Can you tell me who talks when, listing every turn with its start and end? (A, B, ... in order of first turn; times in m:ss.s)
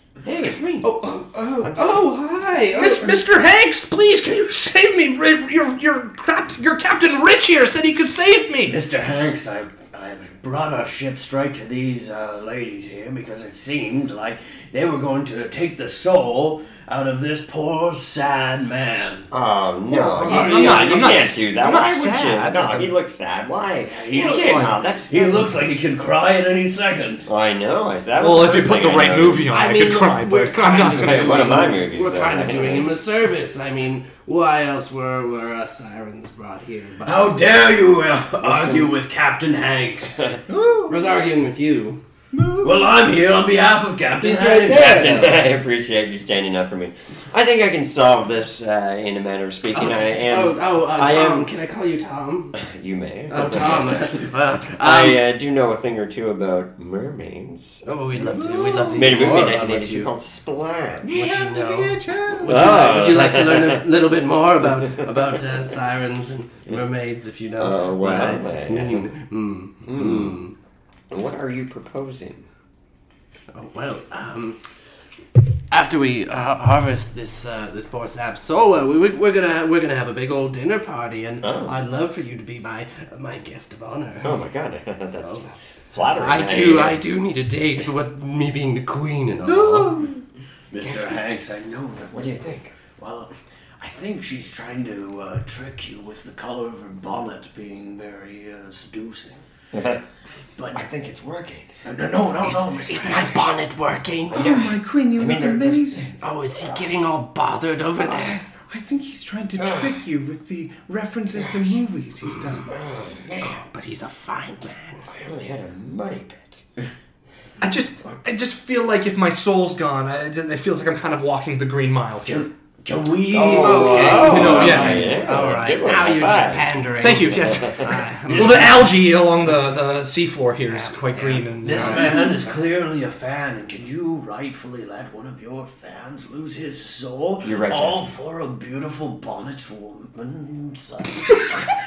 0:00.2-0:00.9 A
0:00.8-0:03.2 B
0:01.6-0:02.0 A
0:02.7-0:08.7 C
0:08.7-0:19.3 D
0:19.3-0:25.5 A
0:20.1-0:22.9 C
0:20.2-0:21.2 D
0:23.8-0:27.3 D
0:27.3-0:29.5 A
0:28.2-0:31.5 C
0:29.5-0:37.4 B
0:30.9-0:32.9 A
0:37.0-0:40.2 D
0:38.4-0:38.9 A
0:40.5-0:41.0 E
0:40.9-0:42.0 B
0:42.3-0:42.9 E
0:42.6-0:44.9 D
0:44.2-0:45.4 B
0:44.6-0:51.5 A
0:49.7-0:52.6 B
0:52.5-0:54.3 A
0:53.3-0:55.2 B
0:54.8-0:57.8 A
0:57.8-1:00.1 B
0:58.2-0:59.1 E
0:58.9-1:01.2 A
1:01.0-1:02.9 E
1:01.1-1:10.6 B
1:02.4-1:03.8 A
1:07.6-1:09.1 A
1:09.8-1:10.4 A
1:11.1-1:12.5 A
1:13.5-1:14.6 B
1:15.7-1:24.4 B
1:21.4-1:21.7 A
1:24.2-1:27.0 A
1:25.2-1:25.5 B
1:26.1-1:30.0 B
1:29.4-1:30.2 E
1:30.7-1:39.4 D
1:30.8-1:31.1 A
1:32.1-1:32.7 A
1:39.7-1:40.0 A
1:40.6-1:40.8 D
1:40.7-1:41.7 A
1:41.8-1:43.4 D
1:42.4-1:44.4 B
1:44.3-1:46.1 A
1:44.3-1:46.1 E
1:46.2-1:48.4 B
1:48.0-1:52.7 E
1:49.6-1:50.0 A
1:51.3-1:51.8 A
1:52.6-1:53.6 A
1:53.4-1:55.1 B
1:55.1-1:56.6 A
1:57.6-2:02.4 C
2:02.2-2:05.2 D
2:03.3-2:06.7 A
2:03.6-2:08.8 B
2:04.2-2:05.2 C
2:07.0-2:12.3 C
2:07.3-2:07.8 A
2:08.3-2:08.9 D
2:11.1-2:12.2 B
2:11.6-2:21.6 D
2:17.4-2:18.0 A